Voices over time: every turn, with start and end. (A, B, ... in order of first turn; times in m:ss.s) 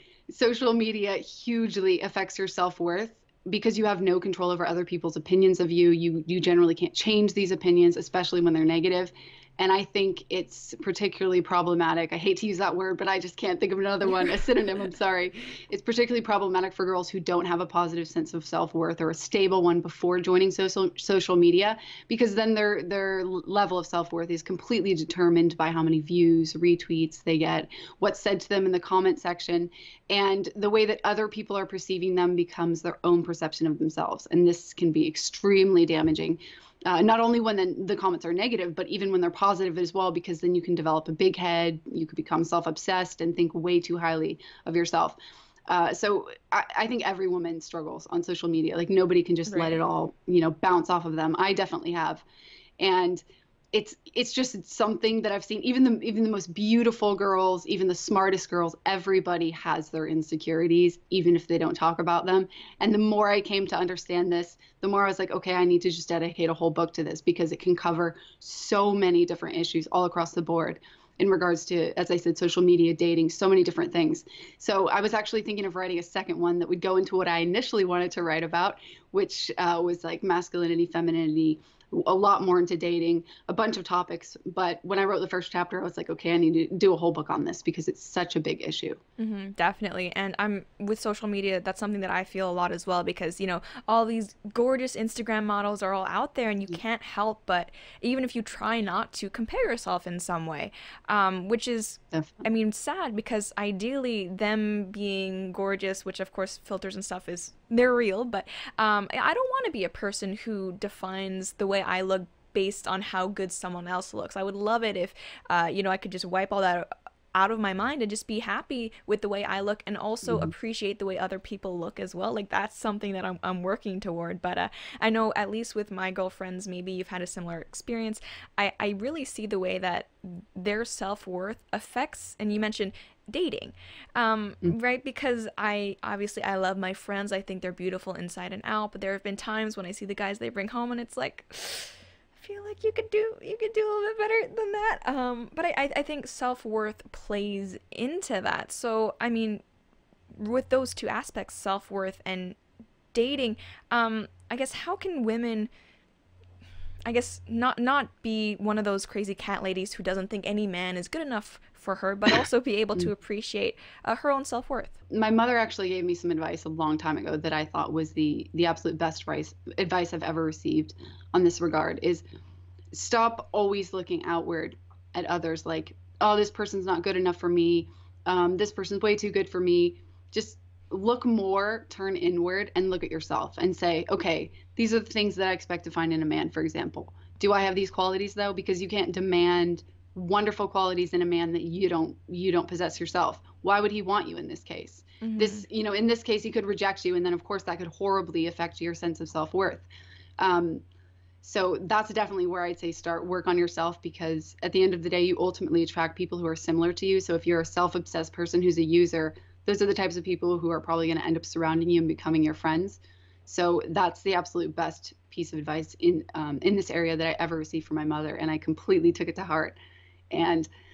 0:00.3-0:52.2 A
0:49.5-0:49.8 B
0:52.8-1:29.0 A
1:29.2-2:29.6 B
1:42.1-1:42.4 A
2:00.2-2:00.5 A
2:30.3-2:32.6 B
2:33.1-2:35.7 B
2:37.1-2:45.0 B
2:45.1-2:52.2 A
2:52.9-3:19.8 A
3:15.2-3:15.6 B
3:20.4-3:20.8 A
3:21.4-3:39.8 A
3:40.3-3:40.7 A